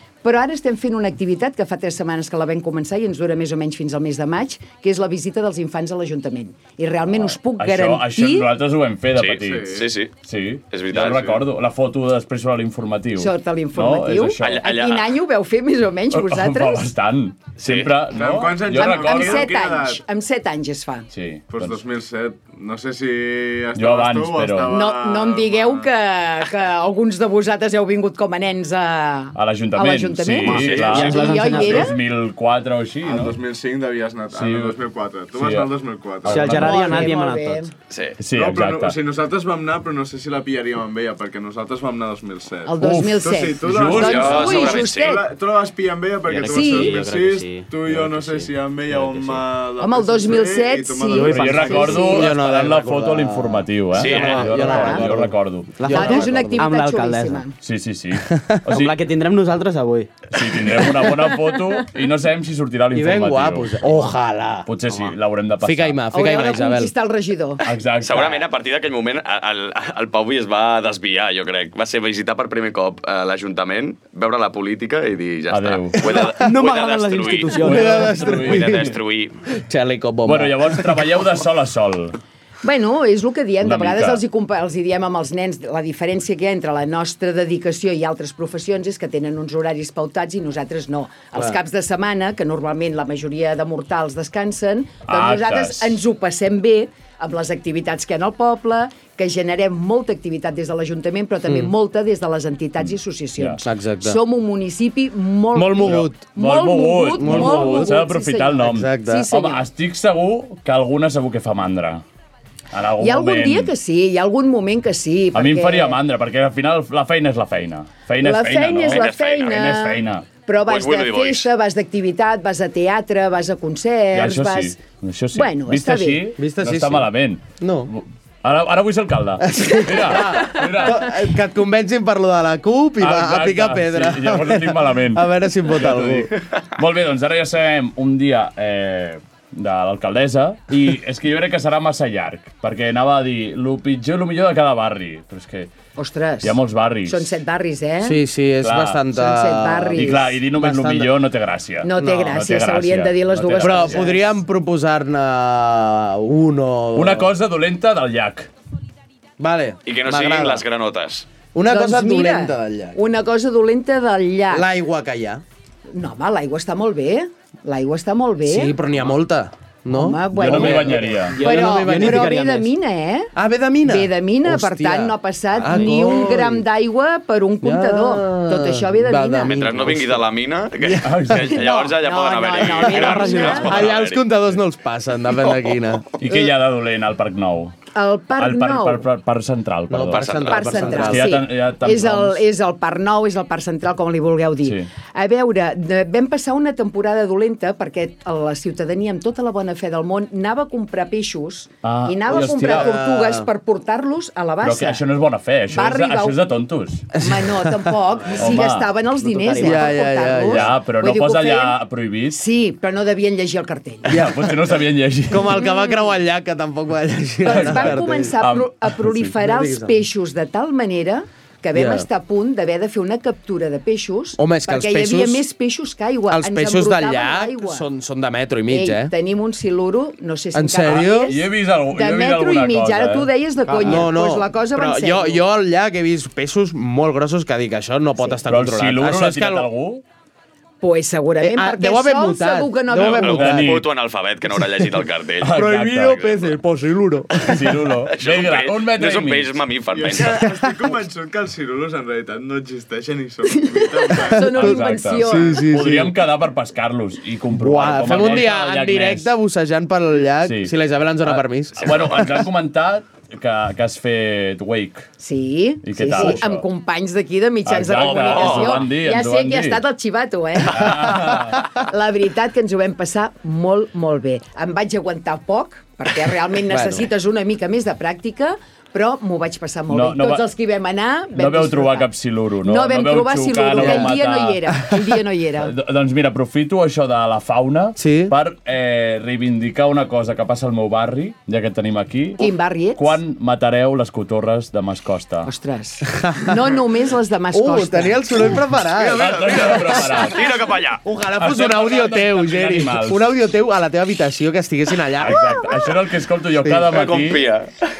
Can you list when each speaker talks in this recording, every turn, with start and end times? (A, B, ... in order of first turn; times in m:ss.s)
0:00.2-0:08.5 A
0:07.1-0:14.6 B
0:09.1-0:10.1 C
0:09.4-0:09.9 D
0:10.7-0:11.4 C
0:11.0-0:11.3 D
0:13.2-0:16.9 A
0:14.4-0:15.1 C
0:16.1-0:19.5 B
0:17.6-0:17.9 C
0:18.1-0:20.0 D
0:18.7-0:21.1 A
0:21.1-0:21.8 B
0:21.5-0:25.9 D
0:23.7-0:24.8 B
0:24.7-0:32.0 A
0:29.3-0:33.4 B
0:30.4-0:32.0 E
0:30.5-0:31.1 C
0:33.0-0:36.5 D
0:34.3-0:34.8 B
0:35.3-0:35.7 B
0:36.2-0:37.1 B
0:36.2-0:37.6 E
0:36.5-0:37.7 A
0:37.9-0:38.2 C
0:38.2-0:39.0 B
0:38.3-0:51.9 D
0:42.6-0:45.2 A
0:42.8-0:44.7 B
0:43.9-0:45.2 C
0:46.2-0:49.4 E
0:46.5-0:47.0 A
0:49.8-0:52.3 A
0:51.1-0:52.2 E
0:51.3-0:56.0 B
0:51.9-0:56.6 F
0:53.9-0:54.6 C
0:54.1-0:55.2 E
0:54.6-0:55.0 A
0:55.8-0:57.5 E
0:55.9-0:57.5 A
0:57.6-0:59.0 B
0:58.2-0:58.6 F
0:58.7-1:00.1 E
1:00.3-1:03.9 B
1:02.9-1:04.7 F
1:04.6-1:06.0 B
1:05.6-1:06.9 F
1:06.1-1:07.6 A
1:07.6-1:08.4 B
1:08.0-1:17.7 C
1:15.5-1:16.1 B
1:16.2-1:18.3 E
1:17.6-1:19.0 F
1:17.6-1:18.9 B
1:18.2-1:19.3 C
1:19.5-1:21.0 F
1:20.2-1:22.2 B
1:22.6-1:49.6 A
1:23.6-1:24.2 B
1:35.1-1:36.0 B
1:41.5-1:41.7 F
1:43.4-1:43.6 B
1:43.6-1:44.2 F
1:45.5-1:46.2 F
1:45.8-1:52.0 B
1:47.2-1:48.0 F
1:48.6-1:49.2 F
1:52.7-1:53.7 B
1:53.0-1:56.0 A
1:55.3-2:00.2 B
1:58.2-2:04.8 A
1:58.9-1:59.6 C
2:00.6-2:01.5 C
2:04.1-2:11.1 B
2:05.3-2:06.2 A
2:06.4-2:07.9 F
2:09.4-2:16.3 F
2:13.0-2:25.7 B
2:26.0-2:28.2 A
2:26.4-2:27.3 B
2:28.0-2:31.1 F
2:28.6-2:29.0 B
2:29.1-2:30.3 A
2:30.0-2:34.2 B
2:31.8-2:34.2 A
2:33.6-2:37.3 F
2:36.9-2:38.5 B
2:39.4-2:40.6 F
2:39.8-2:41.3 C
2:41.5-2:43.0 F
2:41.6-2:44.7 A
2:44.5-2:45.4 F
2:45.9-2:48.8 A
2:48.4-2:52.4 F
2:49.9-2:53.3 A
2:50.3-2:51.4 B
2:50.6-2:52.7 E
2:53.3-2:56.6 F
2:53.8-2:59.6 A
2:55.6-2:56.1 E
2:57.6-3:00.2 F
2:59.4-3:04.3 C
3:00.8-3:01.4 F
3:01.0-3:01.6 B
3:01.4-3:03.8 A
3:02.9-3:03.7 E
3:03.0-3:06.1 F
3:06.2-3:07.8 B
3:07.9-3:09.0 A
3:08.4-3:12.4 B
3:09.9-3:11.4 F
3:10.1-3:10.6 C
3:10.5-3:25.0 A
3:21.8-3:22.9 B
3:22.3-3:23.5 F
3:24.6-3:27.1 B
3:25.7-3:26.4 A
3:27.1-3:31.8 A
3:27.2-3:27.9 F
3:28.4-3:28.9 B
3:29.2-3:29.9 E
3:29.6-3:30.7 F
3:30.4-3:32.4 B
3:32.3-3:34.2 A
3:34.1-3:34.5 F
3:34.1-3:35.7 B
3:35.3-3:38.4 F
3:37.4-3:47.9 A
3:37.4-3:39.3 B
3:39.4-3:40.0 F
3:41.7-3:42.1 F
3:44.4-3:45.4 F
3:46.3-3:49.1 F
3:48.7-3:55.4 A
3:50.5-3:51.4 F
3:50.8-3:53.3 B
3:53.7-3:59.7 F
3:58.4-4:00.0 B
4:00.8-4:03.4 A
4:01.4-4:03.8 F
4:03.0-4:03.9 B
4:03.0-4:05.6 C
4:05.4-4:06.4 B
4:05.5-4:07.6 F
4:07.4-4:09.6 B
4:08.1-4:10.4 C
4:09.9-4:14.5 D
4:10.4-4:10.7 F
4:13.8-4:15.6 A
4:14.5-4:16.2 F
4:14.5-4:19.3 B
4:17.6-4:22.2 F
4:20.4-4:20.7 B
4:21.2-4:25.1 B
4:25.2-4:42.1 A
4:25.8-4:26.6 B
4:26.1-4:26.4 F
4:27.6-4:29.8 B
4:27.9-4:28.8 C
4:30.7-4:31.8 B
4:36.7-4:37.1 F
4:39.9-4:40.5 B
4:41.3-4:44.9 B
4:42.6-4:45.7 A
4:43.7-4:44.1 F
4:45.6-4:55.5 B
4:48.0-4:48.3 F
4:52.4-4:53.2 A
4:55.4-4:58.5 A
4:56.2-4:56.6 F
4:57.5-4:59.7 F
4:59.0-5:01.0 C
4:59.1-5:00.5 B
5:01.0-5:05.7 F
5:01.4-5:03.2 B
5:05.2-5:07.4 B
5:06.6-5:06.9 F
5:06.9-5:07.7 C